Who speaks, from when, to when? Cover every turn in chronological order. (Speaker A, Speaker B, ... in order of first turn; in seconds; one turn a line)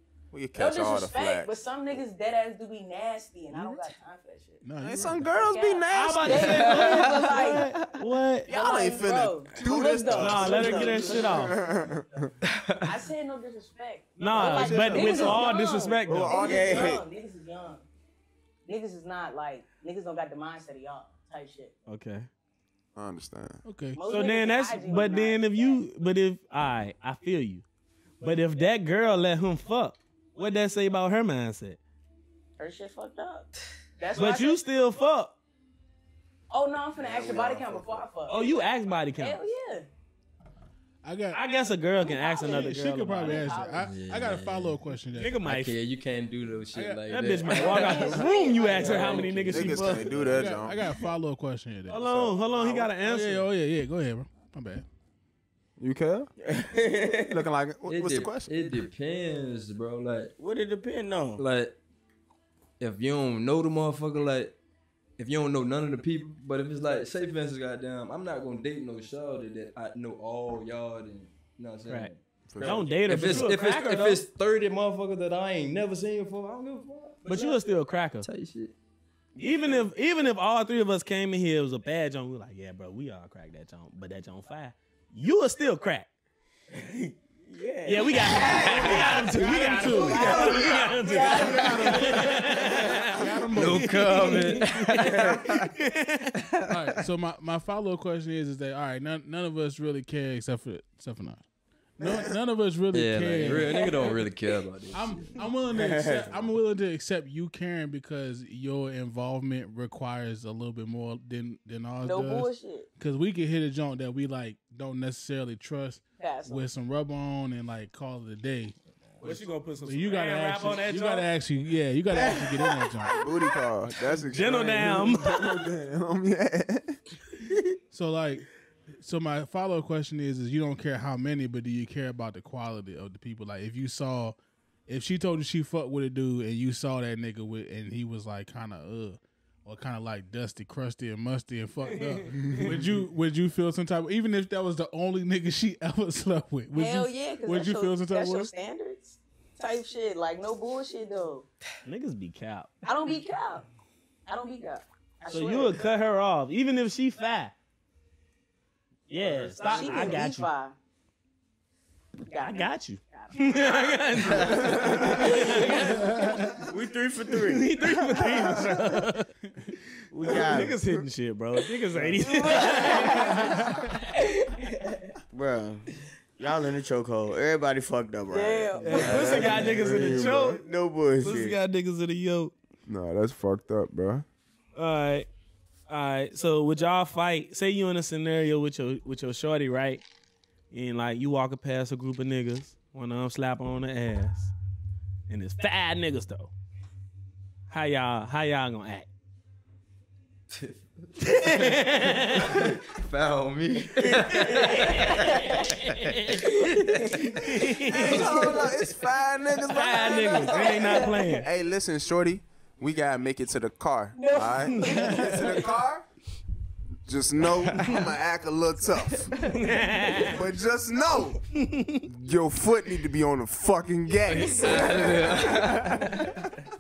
Speaker A: 0.3-1.5
Speaker B: 0.5-4.6
Speaker C: 3.5-3.9
Speaker C: 4.6-5.3
Speaker A: 4.8-6.8
Speaker B: 5.2-7.8
Speaker D: 5.9-8.5
Speaker E: 6.6-7.4
Speaker B: 8.4-11.9
Speaker A: 8.5-12.3
Speaker F: 9.6-11.1
Speaker D: 10.1-11.6
Speaker E: 12.4-13.0
Speaker B: 12.8-17.8
Speaker D: 14.2-16.4
Speaker A: 14.3-17.0
Speaker F: 16.4-17.0
Speaker B: 18.7-21.7
Speaker D: 21.9-22.3
Speaker A: 22.9-23.6
Speaker C: 23.6-24.0
Speaker B: 23.9-25.8
Speaker D: 24.1-27.6
Speaker D: 28.2-31.8
Speaker B: 32.6-34.6
Speaker D: 34.1-35.4
Speaker B: 36.5-39.9
Speaker A: 37.0-38.1
Speaker D: 38.3-39.4
Speaker C: 41.0-41.4
Speaker D: 41.3-43.6
Speaker B: 42.0-44.0
Speaker C: 42.4-45.4
Speaker E: 43.8-50.6
Speaker D: 45.1-45.8
Speaker C: 46.7-47.1
Speaker D: 47.1-50.2
Speaker B: 47.5-49.5
Speaker A: 49.4-50.8
Speaker C: 50.1-52.2
Speaker D: 51.9-53.5
Speaker A: 52.0-52.4
Speaker C: 53.0-54.9
Speaker A: 55.8-56.3
Speaker F: 56.4-57.4
Speaker A: 57.2-58.7
Speaker E: 57.9-60.3
Speaker F: 60.4-61.4
Speaker E: 61.4-61.8
Speaker E: 62.8-64.5
Speaker E: 65.2-77.5
Speaker A: 72.5-73.5
Speaker D: 72.6-74.2
Speaker D: 77.2-78.3
Speaker E: 78.2-78.8
Speaker D: 79.4-86.1
Speaker D: 86.7-96.5
Speaker B: 87.5-92.4
Speaker C: 89.4-90.5
Speaker A: 89.8-90.8
Speaker C: 91.1-94.4
Speaker A: 91.4-91.8
Speaker E: 93.5-95.7
Speaker A: 95.1-95.6
Speaker E: 96.4-96.9
Speaker C: 96.7-101.4
Speaker C: 102.0-104.2
Speaker A: 102.0-102.3
Speaker E: 102.9-105.4
Speaker B: 103.5-104.1
Speaker C: 104.9-123.2
Speaker F: 105.7-106.5
Speaker B: 112.0-112.9
Speaker B: 116.2-116.7
Speaker D: 119.2-121.3
Speaker B: 122.1-123.2
Speaker A: 123.1-127.0
Speaker D: 124.2-125.6
Speaker C: 127.9-128.4
Speaker C: 129.0-134.4
Speaker C: 134.9-148.5
Speaker D: 141.8-142.7
Speaker A: 142.4-142.9
Speaker B: 146.7-151.5
Speaker D: 151.8-152.8
Speaker B: 152.8-153.7
Speaker B: 154.3-155.8
Speaker D: 155.3-157.6
Speaker D: 159.1-160.5
Speaker B: 159.5-160.8
Speaker E: 159.6-160.0
Speaker B: 162.3-163.9
Speaker D: 162.3-166.3
Speaker A: 164.4-165.1
Speaker B: 164.8-166.6
Speaker F: 166.5-167.7
Speaker D: 167.3-169.3
Speaker F: 170.1-170.8
Speaker D: 170.2-173.9
Speaker B: 172.2-174.9
Speaker C: 173.4-173.9
Speaker F: 175.3-181.6
Speaker B: 178.3-179.6
Speaker D: 178.8-180.6
Speaker A: 179.1-180.6
Speaker D: 181.2-182.5
Speaker A: 182.9-184.2
Speaker D: 184.8-185.3
Speaker D: 185.9-190.0
Speaker D: 190.7-194.5
Speaker D: 195.3-196.5
Speaker D: 197.7-199.1
Speaker E: 200.5-207.5
Speaker D: 201.2-202.8
Speaker D: 204.2-208.5
Speaker B: 206.6-207.2
Speaker A: 207.7-216.1
Speaker B: 208.1-208.7
Speaker D: 209.7-211.4
Speaker B: 209.9-211.4
Speaker B: 214.2-215.6
Speaker D: 214.5-215.4
Speaker A: 217.1-219.4
Speaker E: 217.7-218.0
Speaker E: 219.3-219.6
Speaker D: 219.4-220.4
Speaker A: 220.2-221.4
Speaker D: 221.5-222.1
Speaker A: 222.1-226.7
Speaker E: 224.2-226.4